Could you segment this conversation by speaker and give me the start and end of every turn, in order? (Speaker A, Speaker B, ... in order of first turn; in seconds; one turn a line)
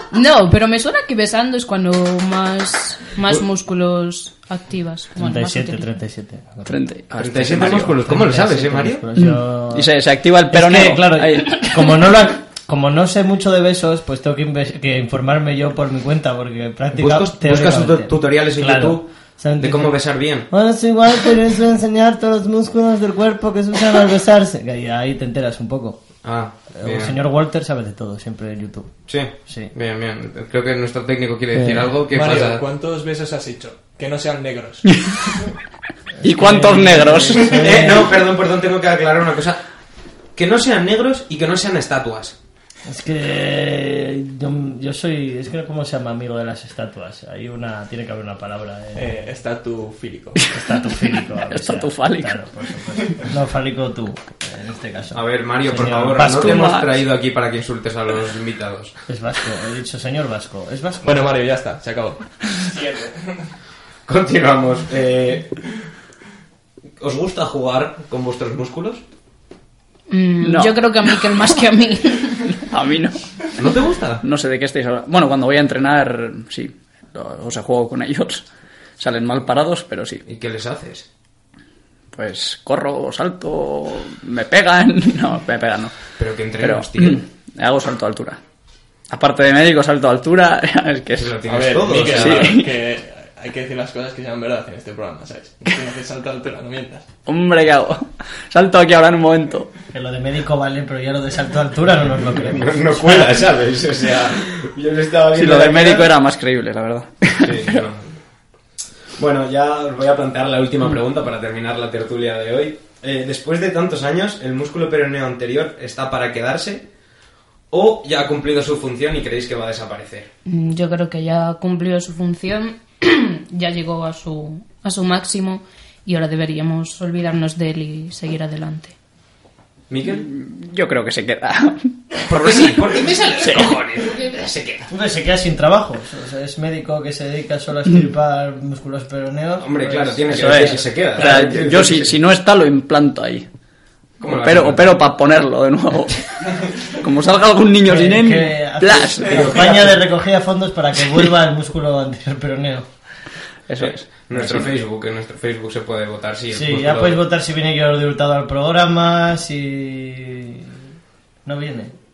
Speaker A: 0.1-5.9
Speaker B: 5.2-6.8
Speaker C: 6.6-8.0
Speaker D: 7.1-9.0
Speaker B: 8.0-9.9
Speaker C: 9.1-12.0
Speaker B: 10.5-26.1
Speaker D: 16.9-20.5
Speaker D: 26.2-27.2
Speaker B: 26.7-29.7
Speaker D: 29.1-32.6
Speaker B: 31.5-32.0
Speaker E: 32.1-34.8
Speaker B: 36.2-38.3
Speaker C: 36.2-37.7
Speaker D: 37.1-39.6
Speaker D: 40.4-42.4
Speaker B: 42.9-49.2
Speaker E: 48.9-50.4
Speaker B: 50.5-56.6
Speaker C: 50.5-50.8
Speaker C: 51.4-52.5
Speaker D: 55.1-58.9
Speaker C: 56.2-56.9
Speaker B: 59.1-61.3
Speaker E: 61.0-63.5
Speaker D: 64.1-65.6
Speaker D: 67.0-69.0
Speaker A: 70.1-72.5
Speaker C: 70.4-71.5
Speaker C: 72.4-73.2
Speaker D: 73.6-74.2
Speaker C: 74.2-78.4
Speaker C: 79.0-80.2
Speaker D: 80.2-81.1
Speaker C: 82.1-85.9
Speaker D: 86.2-87.2
Speaker C: 86.6-88.4
Speaker C: 89.1-91.4
Speaker D: 91.2-92.5
Speaker E: 91.5-97.0
Speaker C: 92.0-92.7
Speaker C: 97.2-99.7
Speaker B: 99.9-103.3
Speaker D: 102.2-106.1
Speaker C: 105.3-107.8
Speaker D: 107.4-108.1
Speaker D: 109.2-116.8
Speaker D: 117.7-120.3
Speaker A: 120.5-128.9
Speaker D: 129.9-130.2
Speaker C: 130.0-133.7
Speaker D: 132.2-134.9
Speaker B: 134.9-140.7
Speaker D: 139.6-142.2
Speaker C: 140.3-143.5
Speaker D: 144.2-144.9
Speaker C: 144.2-146.2
Speaker C: 146.9-149.8
Speaker B: 147.8-152.9
Speaker D: 149.2-150.0
Speaker C: 153.7-154.7
Speaker D: 153.8-157.2
Speaker B: 156.5-160.8
Speaker B: 161.4-161.9